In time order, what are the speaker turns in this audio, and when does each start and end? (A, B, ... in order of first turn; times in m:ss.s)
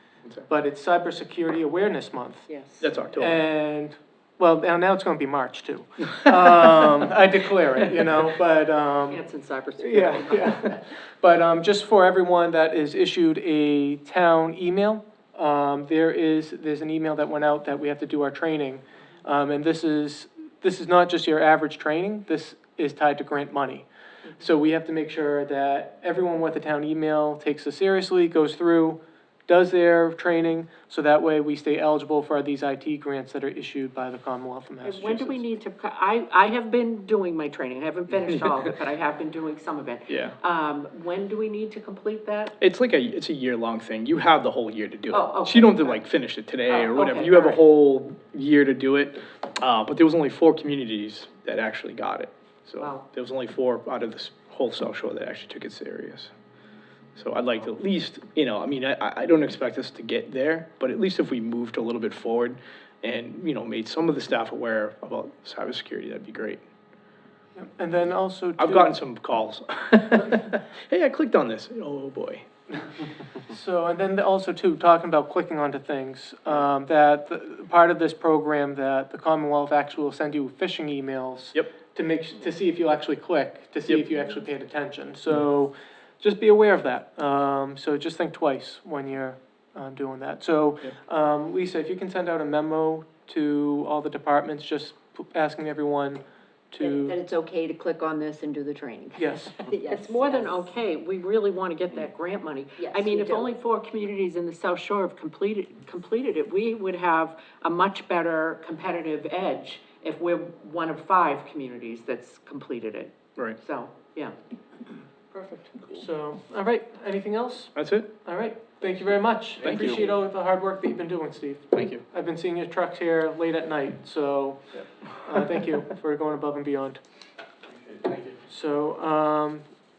0:00.5-0:02.5 A
0:02.5-0:02.9 B
0:02.8-0:03.4 C
0:03.1-0:09.2 A
0:09.1-0:10.8 B
0:09.8-0:35.4 A
0:34.8-0:42.5 B
0:40.1-0:40.4 C
0:42.6-0:56.3 C
0:45.1-0:46.0 B
0:46.7-0:47.6 B
0:52.8-0:53.0 B
0:57.2-1:06.6 C
1:07.5-1:09.0 A
1:08.6-1:12.4 C
1:13.5-1:37.2 A
1:36.8-1:40.7 D
1:39.2-1:39.6 A
1:39.9-1:54.3 B
1:42.8-1:43.5 D
1:55.3-2:07.0 A
1:57.7-1:58.1 C
1:59.6-2:00.0 C
2:01.7-2:02.0 C
2:08.5-2:09.7 A